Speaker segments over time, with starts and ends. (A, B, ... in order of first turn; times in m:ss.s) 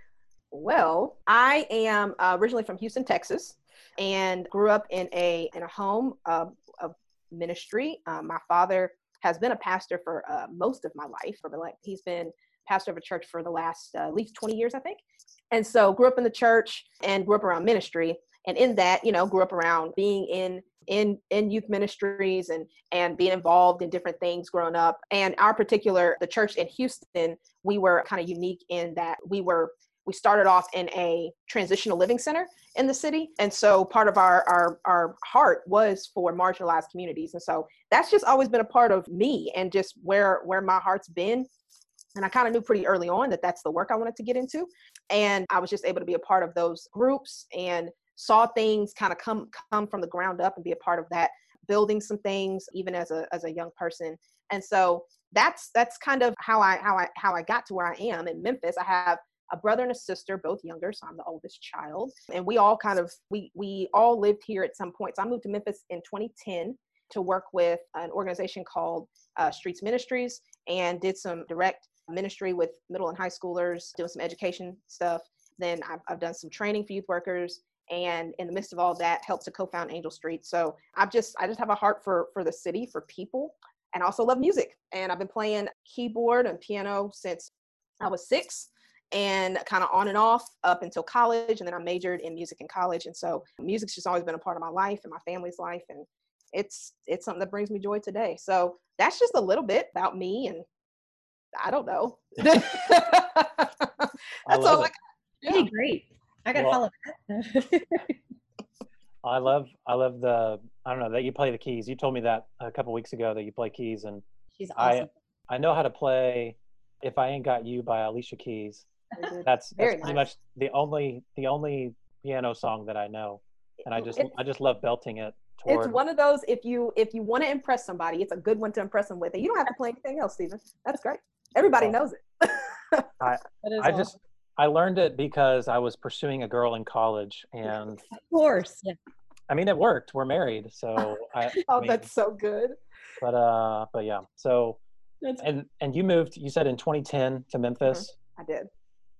0:00.5-0:41.5 A
0:42.2-1:40.6 A
1:41.5-1:44.9 A
1:44.5-1:44.9 B
1:45.5-1:48.2 C
1:49.2-1:54.2 B
1:54.6-1:55.1 C
1:54.8-1:58.9 B
1:59.1-2:00.3 A
1:59.4-2:06.0 B
2:03.8-2:04.3 A
2:05.7-2:13.1 A
2:11.6-2:12.0 B
2:13.2-2:18.1 B
2:13.6-2:14.1 C
2:18.1-2:19.0 C
2:19.5-2:22.1 B
2:21.7-2:22.8 A
2:23.2-2:24.8 B
2:25.4-2:28.2 B
2:27.9-2:28.7 A